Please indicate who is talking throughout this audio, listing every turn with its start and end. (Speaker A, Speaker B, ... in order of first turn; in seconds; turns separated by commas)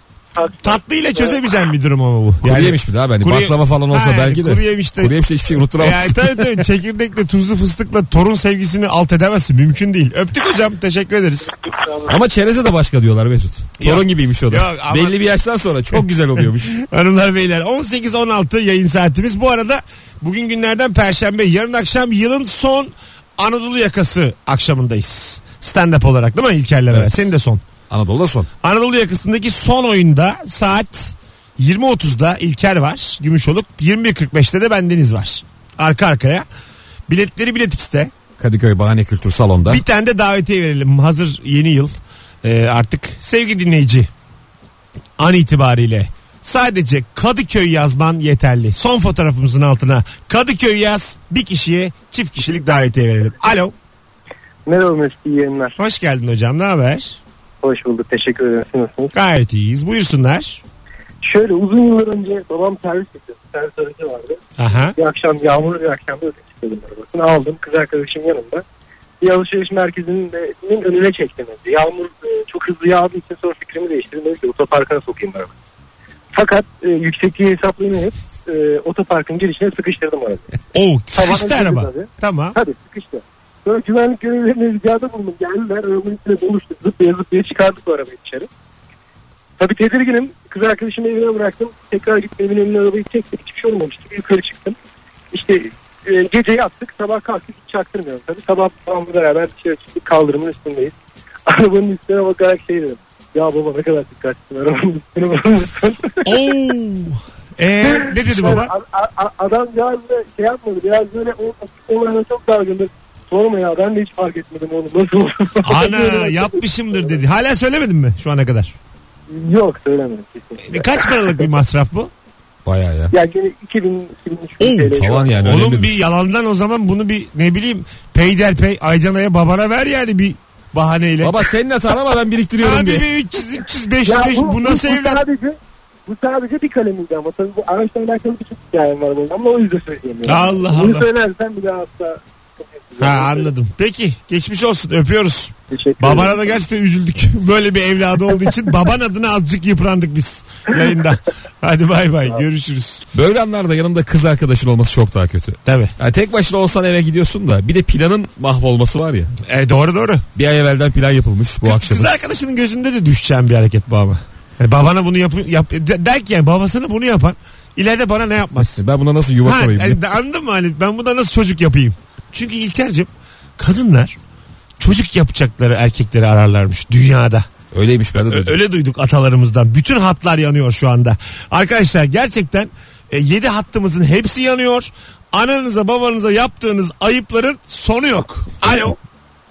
Speaker A: 0.3-1.4, Speaker B: 0.6-5.1, Speaker C: 2.4-6.6, Speaker B: 5.7-11.5, Speaker A: 11.4-12.2, Speaker C: 12.1-16.7, Speaker B: 13.8-15.2, Speaker B: 15.9-27.6, Speaker C: 26.9-27.2, Speaker C: 27.9-28.5, Speaker B: 28.6-36.5, Speaker B: 37.1-38.1, Speaker C: 38.4-39.8, Speaker B: 39.7-44.1, Speaker B: 45.2-53.7, Speaker A: 54.6-55.8, Speaker B: 55.8-57.2, Speaker A: 57.6-59.1, Speaker B: 59.1-60.6, Speaker A: 61.2-68.6, Speaker B: 64.6-65.0, Speaker A: 69.2-75.5, Speaker A: 76.3-80.5, Speaker B: 80.7-82.5, Speaker A: 81.1-88.5, Speaker A: 89.6-94.8, Speaker A: 95.3-100.9, Speaker A: 101.5-106.5, Speaker B: 106.2-108.7, Speaker A: 107.9-117.2, Speaker B: 115.6-118.8, Speaker A: 119.3-121.5, Speaker B: 120.6-122.1, Speaker C: 122.6-123.1, Speaker A: 123.1-125.5, Speaker B: 124.6-131.4, Speaker C: 125.0-125.9, Speaker C: 131.2-133.1, Speaker B: 132.6-135.2, Speaker A: 134.0-143.5, Speaker B: 140.2-141.1, Speaker B: 143.0-153.1, Speaker A: 145.7-146.5, Speaker C: 153.1-159.3, Speaker B: 155.7-155.9, Speaker B: 159.4-160.2, Speaker C: 160.3-162.2, Speaker B: 161.6-168.8, Speaker C: 168.8-170.0, Speaker B: 169.4-174.2, Speaker B: 174.8-177.5, Speaker C: 177.7-178.6, Speaker B: 178.2-189.0